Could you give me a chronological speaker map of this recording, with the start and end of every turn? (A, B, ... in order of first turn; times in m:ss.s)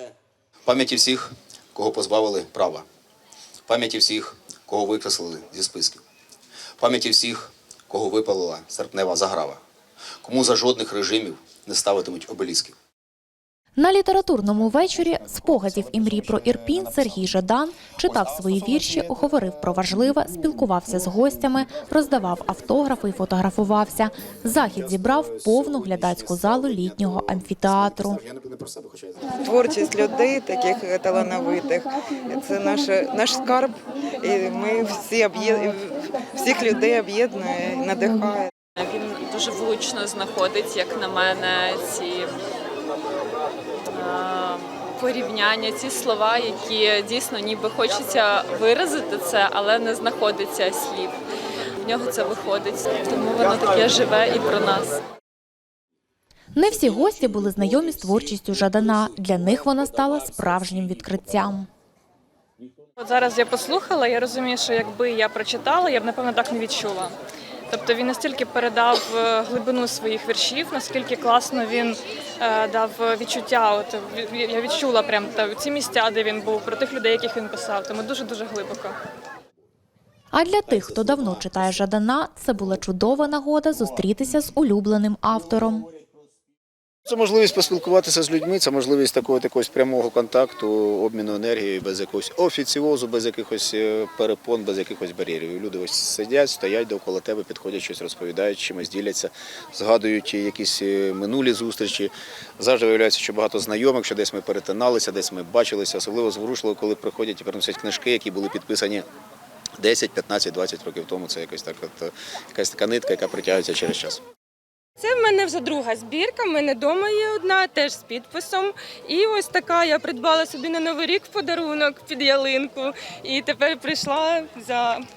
0:00.6-0:02.8 A
0:03.7-0:06.0 A
0:06.8-0:09.6 A
0:10.2-0:12.8 A
0:13.8-0:28.2 B
0:15.2-0:17.2 A
0:18.1-0:19.7 A
0:24.6-0:29.3 A
0:29.4-0:38.5 C
0:38.8-0:42.3 D
0:43.9-0:51.2 D
0:51.8-0:55.0 D
0:56.5-1:01.7 B
1:03.0-1:07.1 E
1:07.7-1:18.9 E
1:20.3-1:25.9 B
1:27.0-1:49.0 A
1:49.8-1:54.2 A
1:55.0-2:05.0 F